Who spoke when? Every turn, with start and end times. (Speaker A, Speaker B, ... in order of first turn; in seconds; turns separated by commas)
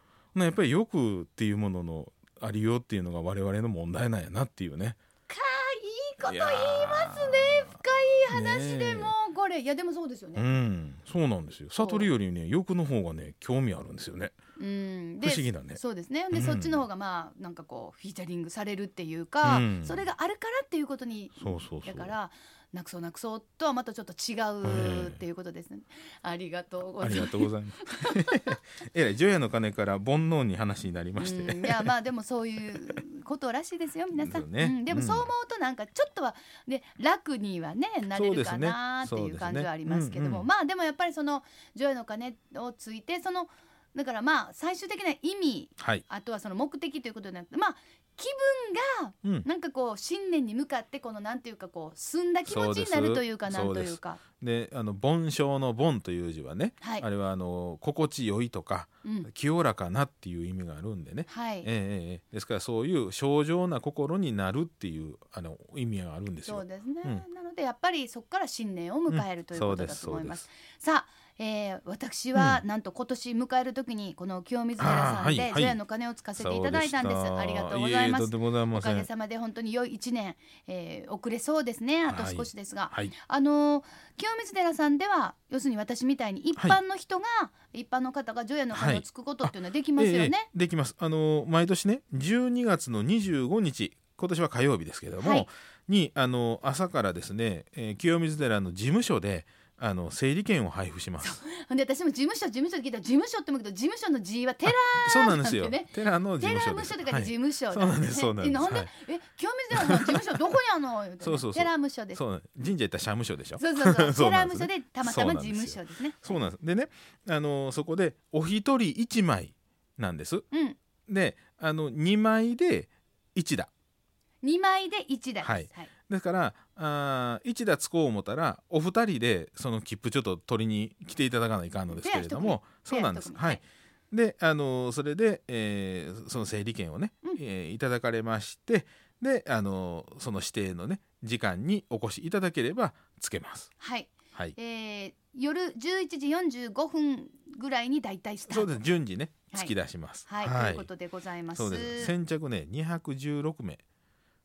Speaker A: 0.3-5.0, Speaker B: 5.3-10.4, Speaker A: 6.2-7.8, Speaker A: 8.3-9.1, Speaker A: 10.3-14.3, Speaker B: 11.8-12.1, Speaker B: 14.6-28.6, Speaker A: 15.2-15.8, Speaker A: 16.3-16.8, Speaker A: 19.4-20.0, Speaker A: 21.4-22.1, Speaker A: 24.6-25.2, Speaker A: 27.0-31.9, Speaker B: 31.2-54.2, Speaker A: 34.1-35.3, Speaker A: 38.1-40.5, Speaker A: 45.8-46.0, Speaker A: 52.5-67.2, Speaker B: 56.8-57.0, Speaker B: 59.0-59.3, Speaker B: 61.3-61.7, Speaker B: 66.4-90.5, Speaker A: 69.1-70.4, Speaker A: 72.3-72.6, Speaker A: 74.8-75.8, Speaker A: 76.3-79.1, Speaker A: 82.1-83.1, Speaker A: 88.7-101.4, Speaker B: 95.2-95.5, Speaker B: 101.2-112.2, Speaker A: 105.0-108.9, Speaker A: 109.7-110.2, Speaker A: 111.2-120.5, Speaker B: 113.6-116.4, Speaker B: 120.5-120.8, Speaker A: 121.1-123.7, Speaker B: 124.4-125.9, Speaker A: 125.4-143.7, Speaker B: 131.9-133.6, Speaker B: 143.8-148.8, Speaker A: 148.5-150.9, Speaker B: 150.2-152.1, Speaker A: 151.5-153.8